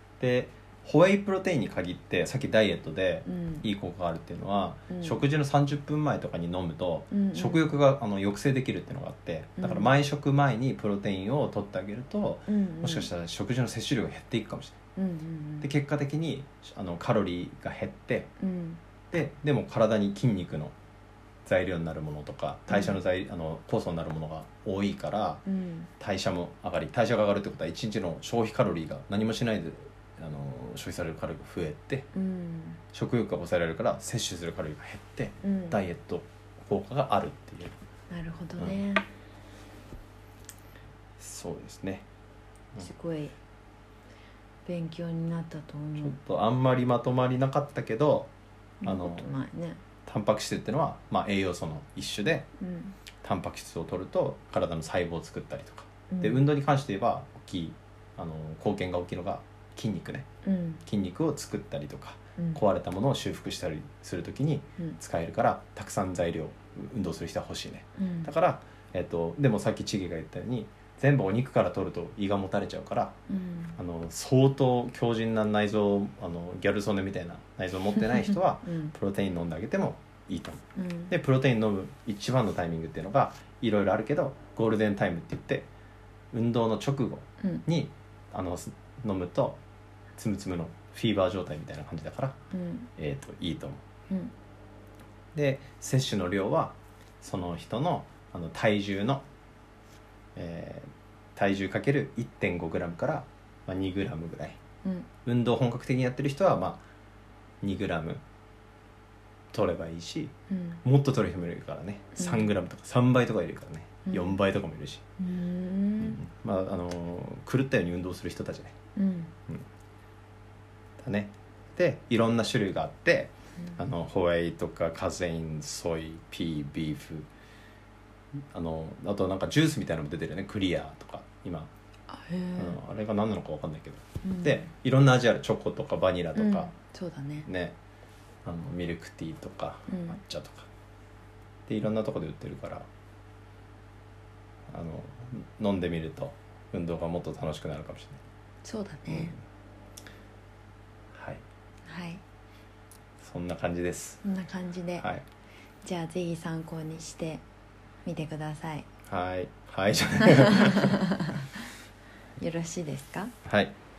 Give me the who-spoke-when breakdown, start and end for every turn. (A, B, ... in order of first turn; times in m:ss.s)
0:00.2-0:14.8 A
0:03.3-0:03.6 B
0:04.9-0:05.2 B
0:07.1-0:07.7 B
0:09.6-0:09.9 B
0:12.5-0:13.1 B
0:15.0-0:15.7 B
0:15.6-0:18.3 A
0:18.4-0:18.8 B
0:19.1-0:20.8 A
0:21.5-0:25.4 A
0:22.7-0:23.0 B
0:25.5-0:25.9 B
0:26.0-0:32.1 A
0:32.1-0:32.8 B
0:32.9-0:37.8 A
0:35.4-0:35.8 B
0:38.1-0:39.1 B
0:41.2-0:42.1 A
0:42.8-0:43.4 B
0:44.7-0:46.2 B
0:46.0-0:48.3 A
0:48.8-0:49.8 B
0:48.8-0:49.3 A
0:50.1-0:52.5 A
0:52.6-0:53.0 B
0:53.2-1:00.3 A
0:56.1-0:56.4 B
1:00.4-1:00.8 B
1:00.9-1:13.2 A
1:02.4-1:02.6 B
1:08.0-1:08.3 B
1:13.3-1:13.8 B
1:13.8-1:25.7 A
1:18.6-1:18.9 B
1:20.8-1:21.1 B
1:26.3-1:29.6 A
1:27.4-1:27.7 B
1:30.2-1:32.4 A
1:32.5-1:32.9 B
1:33.0-1:33.8 A
1:35.3-1:39.2 A
1:40.4-1:44.6 A
1:44.8-1:45.1 B
1:45.2-1:46.8 A
1:47.6-1:48.2 A
1:49.5-1:55.0 A
1:50.5-1:50.8 B
1:52.2-1:52.6 B
1:54.1-1:54.4 B
1:55.2-1:56.2 B
1:56.0-1:58.8 A
1:59.0-1:59.3 B
2:01.0-2:07.3 A
2:08.5-2:11.7 A
2:12.1-2:12.8 B
2:12.6-2:16.7 A
2:14.2-2:14.7 B
2:16.4-2:17.5 B
2:17.5-2:17.8 A
2:18.4-2:20.7 A
2:19.9-2:20.2 B
2:21.7-2:22.9 A
2:24.7-2:28.2 A
2:28.6-2:29.4 B
2:31.1-2:31.4 A
2:31.9-2:32.2 B
2:33.2-2:34.2 A
2:34.2-2:35.1 B
2:35.8-2:37.4 B
2:38.0-2:38.9 B
2:39.1-2:41.0 A
2:40.2-2:41.6 B
2:42.4-2:43.3 B
2:43.4-2:43.7 A